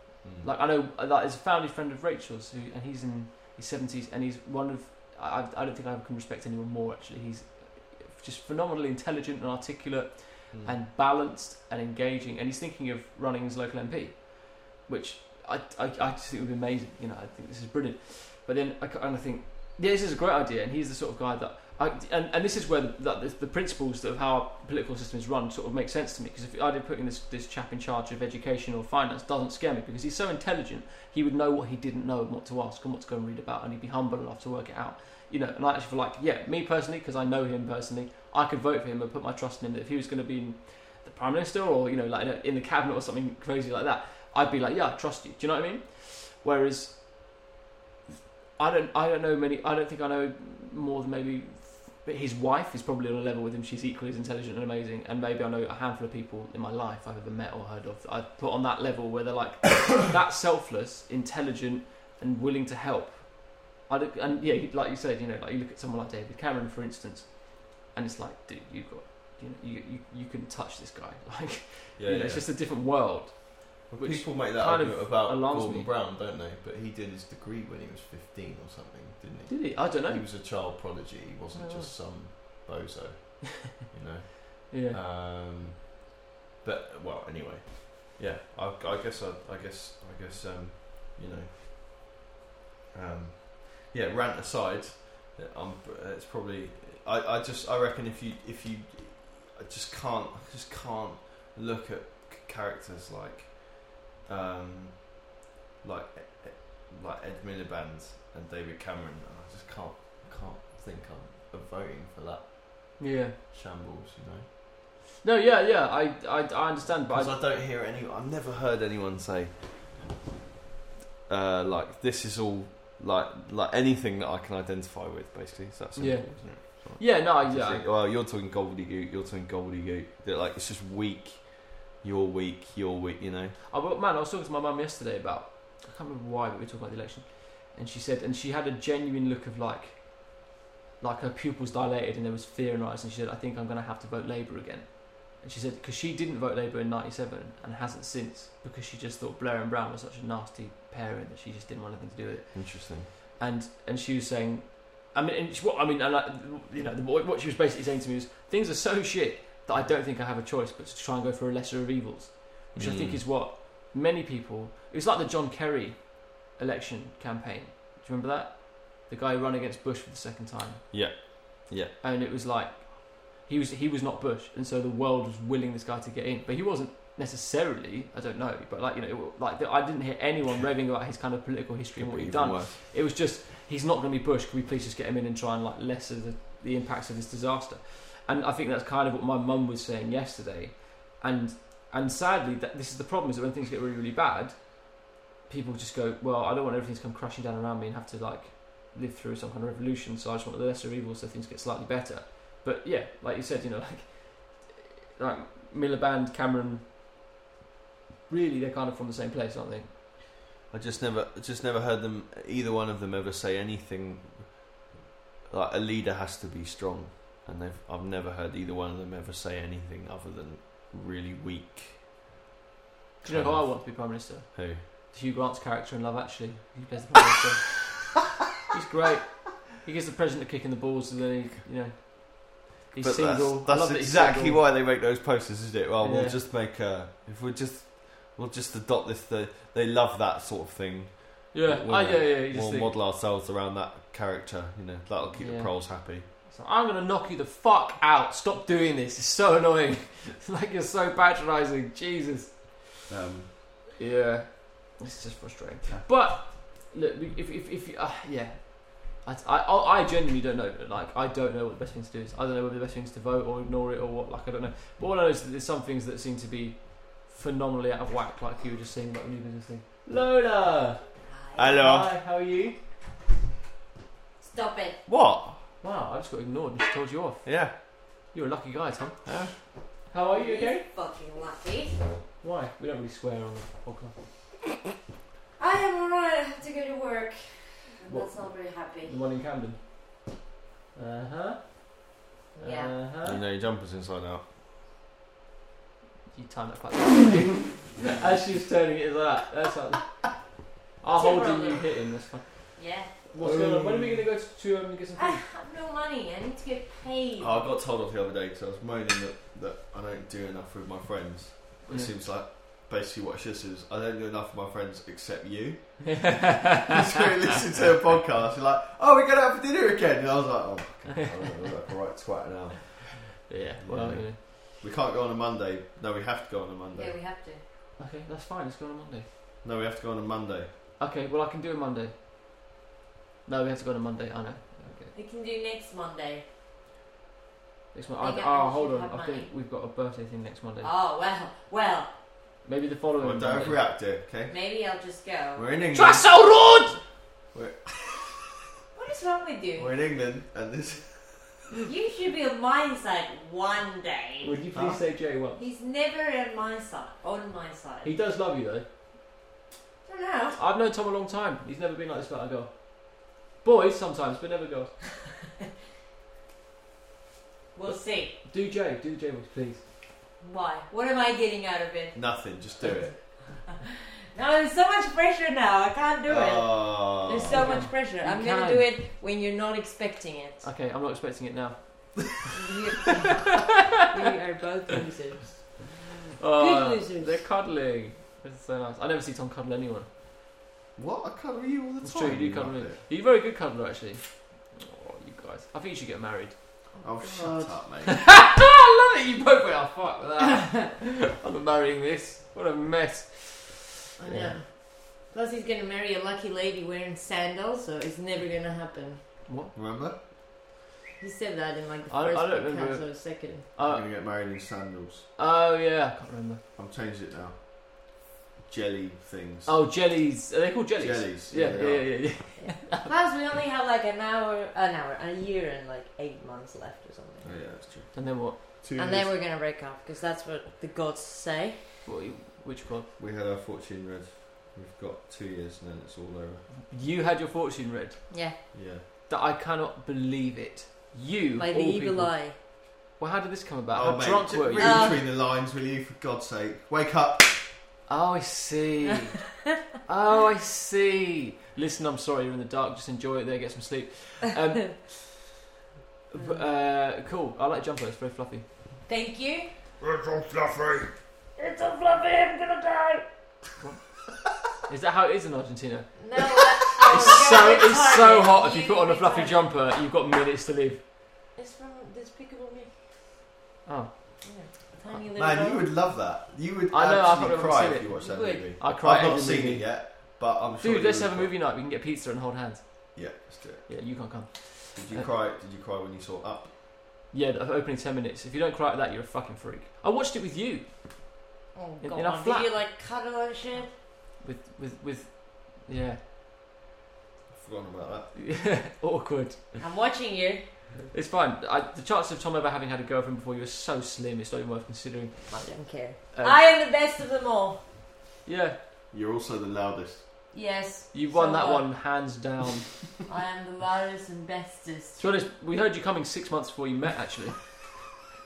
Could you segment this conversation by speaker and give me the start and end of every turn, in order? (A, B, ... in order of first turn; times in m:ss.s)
0:00.2-0:00.5 A
0:00.4-0:47.3 B
0:10.5-0:10.8 A
0:48.6-1:15.9 B
1:12.0-1:12.5 A
1:13.9-1:26.1 A
1:19.5-1:20.2 B
1:21.5-1:21.9 B
1:24.7-1:25.0 B
1:26.6-1:32.1 A
1:32.9-1:45.3 A
1:45.8-1:54.5 A
1:53.0-1:53.4 B
1:55.2-1:57.4 B
1:57.1-2:00.0 A
2:01.3-2:13.6 A
2:06.0-2:07.8 B
2:13.7-2:50.9 B
2:32.5-2:33.1 A
2:42.7-2:43.2 A
2:50.9-2:51.9 A
2:52.0-3:26.9 B
3:02.0-3:02.8 A
3:28.3-3:29.9 B
3:30.7-3:34.8 A
3:35.5-3:42.0 A
3:43.2-3:44.8 A
3:43.2-3:47.8 B
3:48.7-3:54.6 B
3:53.0-4:06.3 A
3:56.0-3:56.4 B
4:01.5-4:02.9 B
4:05.4-4:12.9 B
4:13.1-4:13.5 A
4:14.0-4:31.0 B
4:31.2-4:31.7 C
4:31.5-4:32.1 A
4:31.8-4:32.8 B
4:34.4-4:35.0 C
4:35.1-4:35.6 A
4:35.8-4:40.8 B
4:37.4-4:37.8 A
4:39.2-4:39.6 A
4:40.3-4:42.1 C
4:42.4-4:44.2 B
4:45.6-4:49.2 C
4:48.1-4:49.8 B
4:50.9-4:53.4 B
4:52.5-4:52.9 C
4:53.2-4:54.4 A
4:56.3-5:00.3 B
4:58.0-4:58.3 A
5:01.0-5:05.4 B
5:01.1-5:01.9 C
5:02.8-5:03.1 C
5:03.3-5:04.2 A
5:05.2-5:07.7 C
5:07.4-5:27.1 A
5:16.1-5:17.0 B
5:23.4-5:24.4 B
5:26.9-5:27.6 C
5:28.0-5:29.3 B
5:29.6-5:30.7 A
5:31.0-5:32.1 B
5:33.4-5:35.1 B
5:35.1-5:36.4 C
5:37.9-5:40.9 B
5:38.2-5:39.5 C
5:40.8-5:42.1 C
5:42.6-5:43.8 B
5:43.2-5:44.6 A
5:44.5-5:45.6 C
5:45.5-5:46.8 A
5:45.9-5:47.0 B
5:47.5-5:48.5 A
5:48.9-5:49.9 C
5:49.8-5:51.7 A
5:51.8-5:54.6 C
5:54.4-5:55.6 B
5:54.7-5:55.0 A
5:55.6-5:58.2 C
5:58.0-5:58.8 B
6:00.0-6:00.6 C
6:00.6-6:04.9 B
6:07.7-6:08.4 C
6:08.4-6:09.8 B
6:10.4-6:20.7 C
6:12.1-6:13.2 A
6:16.3-6:17.8 A
6:17.5-6:18.9 B
6:20.6-6:22.4 B
6:22.6-6:25.9 C
6:26.4-6:30.1 B
6:26.6-6:27.4 C
6:31.0-6:33.0 A
6:32.0-6:43.8 B
6:37.0-6:38.3 A
6:40.4-6:40.8 C
6:44.2-6:44.6 A
6:44.2-6:49.4 C
6:49.4-6:49.7 B
6:49.7-6:50.2 A
6:51.2-6:53.7 C
6:52.1-6:54.0 B
6:53.8-6:55.3 A
6:55.4-6:56.6 B
6:56.8-6:59.8 A
6:59.6-7:03.1 B
7:01.0-7:02.4 A
7:02.6-7:07.6 C
7:07.4-7:09.3 A
7:08.1-7:08.6 B
7:08.9-7:12.0 C
7:12.0-7:13.1 B
7:13.2-7:16.7 A
7:16.7-7:18.7 B
7:18.3-7:18.6 C
7:18.7-7:19.0 A
7:19.3-7:22.4 B
7:21.6-7:22.6 C
7:23.2-7:25.1 B
7:23.9-7:27.6 A
7:24.8-7:25.2 C
7:28.1-7:29.5 B
7:30.0-7:35.4 B
7:36.3-7:38.6 B
7:39.0-7:39.7 C
7:40.0-7:41.1 A
7:41.6-7:43.2 C
7:43.8-7:44.0 B
7:44.8-7:46.3 B
7:46.2-7:49.6 C
7:47.0-7:51.0 B
7:51.5-7:53.0 C
7:53.8-7:54.1 B
7:54.4-7:55.9 C
7:55.3-8:01.5 A
7:56.9-8:03.2 B
7:58.2-7:58.7 C
8:03.1-8:04.0 A
8:03.9-8:05.3 B
8:04.9-8:06.7 A
8:07.3-8:11.4 B
8:11.7-8:13.9 C
8:12.0-8:12.7 B
8:14.4-8:16.2 B
8:17.5-8:18.3 A
8:18.3-8:19.8 B
8:19.8-8:20.6 C
8:21.1-8:25.6 B
8:25.5-8:27.8 C
8:26.3-8:26.6 B
8:28.4-8:28.8 B
8:29.1-8:30.3 A
8:30.5-8:31.9 C
8:31.1-8:33.0 B
8:33.2-8:35.2 C
8:35.2-8:37.8 B